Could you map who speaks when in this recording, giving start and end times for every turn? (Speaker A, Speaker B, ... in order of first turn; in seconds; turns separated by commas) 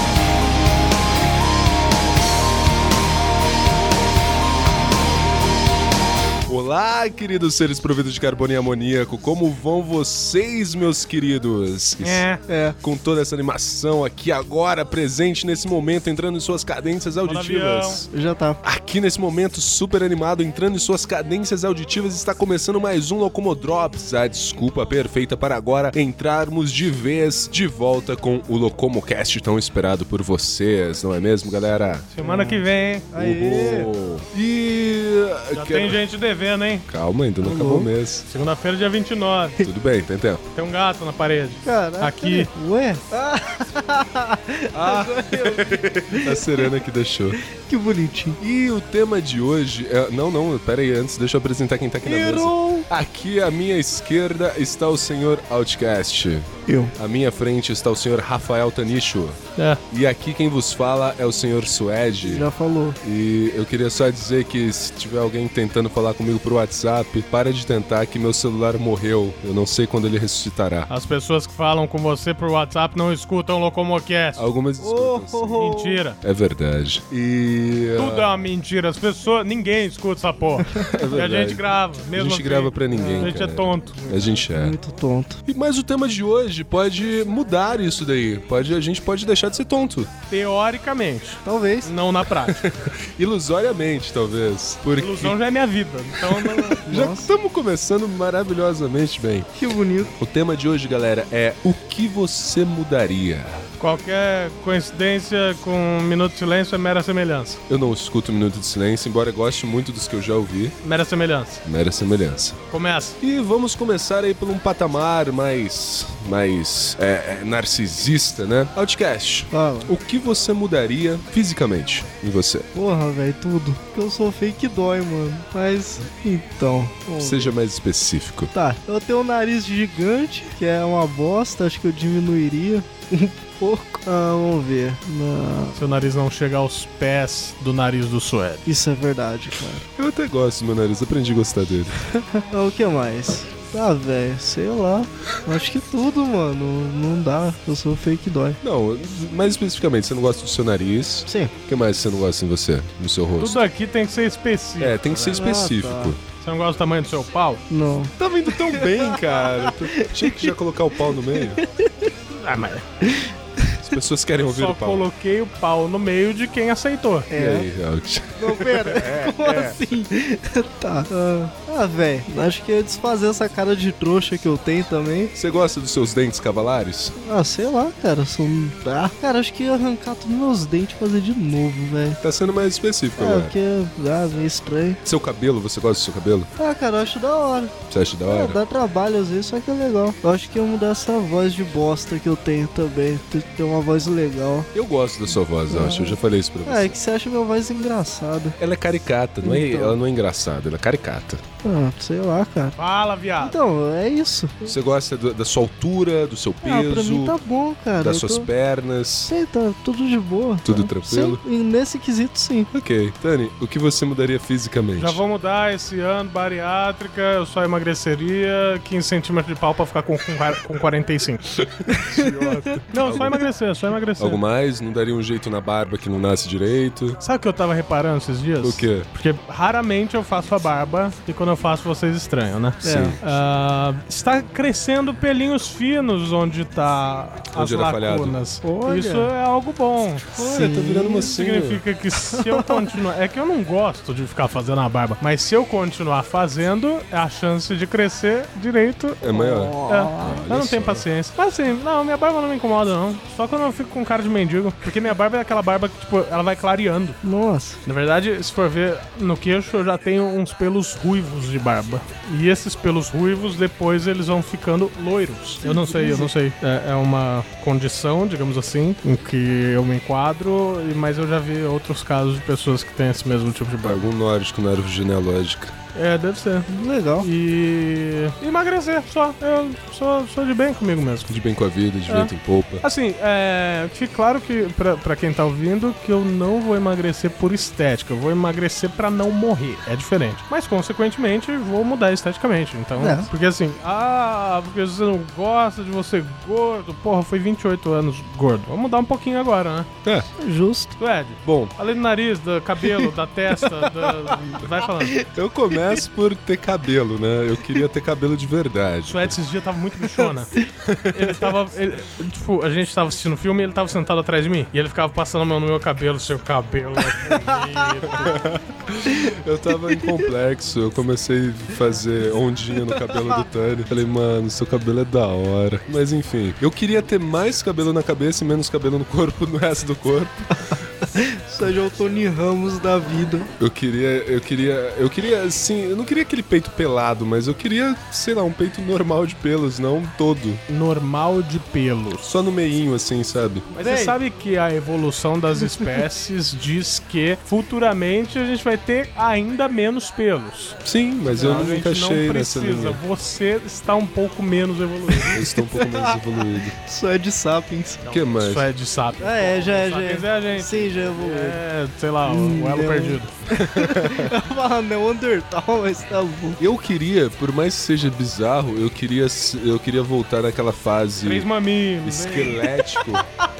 Speaker A: 6.5-12.2, Speaker B: 12.0-12.4, Speaker C: 12.5-12.8, Speaker A: 12.8-18.1, Speaker B: 17.2-18.0, Speaker C: 18.1-18.6, Speaker A: 18.6-32.1, Speaker B: 32.1-33.1, Speaker C: 32.2-33.9, Speaker A: 33.1-36.0, Speaker B: 35.5-36.9, Speaker A: 36.9-38.2, Speaker C: 37.4-37.9, Speaker B: 38.2-39.7, Speaker A: 39.6-40.4, Speaker B: 40.5-42.5, Speaker C: 41.6-46.7, Speaker A: 44.7-47.4, Speaker C: 47.3-48.4, Speaker A: 48.4-62.5, Speaker C: 52.0-52.9, Speaker C: 56.7-56.9, Speaker B: 59.6-59.8, Speaker C: 62.2-63.0, Speaker A: 63.0-70.9, Speaker B: 70.9-74.5, Speaker A: 74.3-75.7, Speaker C: 74.8-76.0, Speaker B: 75.6-76.2, Speaker A: 76.2-78.3, Speaker B: 77.9-84.1, Speaker C: 80.6-80.9, Speaker A: 80.8-84.8, Speaker C: 82.9-85.4, Speaker A: 85.5-90.1, Speaker B: 90.3-92.6, Speaker C: 91.4-91.9, Speaker A: 92.4-95.3, Speaker B: 95.0-96.9, Speaker A: 96.1-99.5, Speaker C: 96.9-97.3, Speaker C: 99.5-100.1, Speaker A: 100.1-103.6, Speaker B: 103.8-107.6, Speaker A: 107.7-110.8, Speaker B: 110.8-111.6, Speaker A: 111.6-112.6, Speaker B: 112.7-113.2, Speaker A: 113.2-122.7, Speaker C: 119.5-119.9, Speaker C: 122.7-127.5, Speaker A: 127.2-128.5, Speaker C: 128.5-135.8, Speaker B: 135.7-138.7, Speaker C: 138.7-139.8, Speaker A: 140.0-142.0, Speaker C: 142.1-148.6, Speaker A: 148.6-153.6, Speaker C: 151.3-151.5, Speaker B: 153.4-155.5, Speaker A: 154.8-156.2, Speaker C: 155.3-156.1, Speaker B: 156.4-157.6, Speaker C: 157.7-162.1, Speaker A: 158.2-161.6, Speaker B: 162.3-162.8, Speaker C: 163.0-163.9, Speaker A: 163.8-165.1, Speaker B: 164.4-167.3, Speaker C: 167.3-167.7, Speaker A: 167.3-169.8, Speaker C: 168.4-175.3, Speaker A: 175.3-177.1, Speaker C: 177.2-182.2, Speaker A: 182.2-183.5, Speaker C: 183.2-185.0, Speaker A: 185.0-186.5, Speaker C: 186.6-194.7, Speaker A: 187.9-188.6, Speaker A: 194.7-196.9, Speaker C: 195.7-198.6, Speaker A: 198.6-201.4, Speaker C: 199.4-200.0, Speaker C: 201.6-202.8, Speaker B: 202.8-203.6, Speaker C: 203.4-204.8, Speaker A: 204.6-207.3, Speaker C: 206.6-208.5, Speaker A: 208.0-209.3, Speaker C: 209.3-212.7, Speaker A: 210.6-211.4, Speaker A: 212.7-215.2, Speaker B: 215.0-221.4, Speaker A: 221.6-221.9, Speaker C: 221.9-222.8, Speaker B: 222.1-224.4, Speaker A: 222.7-223.4, Speaker A: 224.2-227.2, Speaker B: 227.2-240.3, Speaker A: 228.6-229.1, Speaker C: 232.8-233.2, Speaker A: 232.8-233.2, Speaker A: 237.5-238.4, Speaker C: 238.6-239.3, Speaker C: 240.3-241.3, Speaker A: 240.4-241.8, Speaker B: 241.3-257.2, Speaker C: 242.3-242.9, Speaker A: 249.2-251.0, Speaker C: 249.3-250.5, Speaker C: 257.2-257.8, Speaker B: 257.8-274.0, Speaker C: 265.6-266.3, Speaker A: 273.8-275.8, Speaker B: 275.9-276.7, Speaker C: 276.7-277.3, Speaker B: 277.2-281.3, Speaker A: 281.3-282.8, Speaker B: 282.1-299.9, Speaker C: 293.0-293.3, Speaker C: 300.4-301.0, Speaker B: 301.0-305.2, Speaker A: 301.4-301.7, Speaker C: 303.8-304.1, Speaker A: 305.3-309.4, Speaker C: 305.7-306.0, Speaker B: 309.0-310.6, Speaker A: 310.8-311.5, Speaker B: 311.1-318.5, Speaker C: 317.3-317.8, Speaker A: 318.1-330.7, Speaker C: 319.1-320.3, Speaker C: 322.7-323.4, Speaker C: 330.7-333.5, Speaker A: 333.6-340.6, Speaker B: 340.7-342.3, Speaker A: 342.2-343.7, Speaker B: 343.7-355.4, Speaker C: 343.8-344.2, Speaker A: 350.8-353.0, Speaker C: 351.3-351.7, Speaker C: 355.1-356.2, Speaker A: 355.3-356.7, Speaker C: 356.8-358.1, Speaker B: 358.1-363.3, Speaker A: 358.1-358.7, Speaker C: 359.2-361.6, Speaker C: 362.2-366.6, Speaker A: 363.5-364.4, Speaker A: 366.6-371.5, Speaker B: 371.2-372.7, Speaker A: 372.0-373.2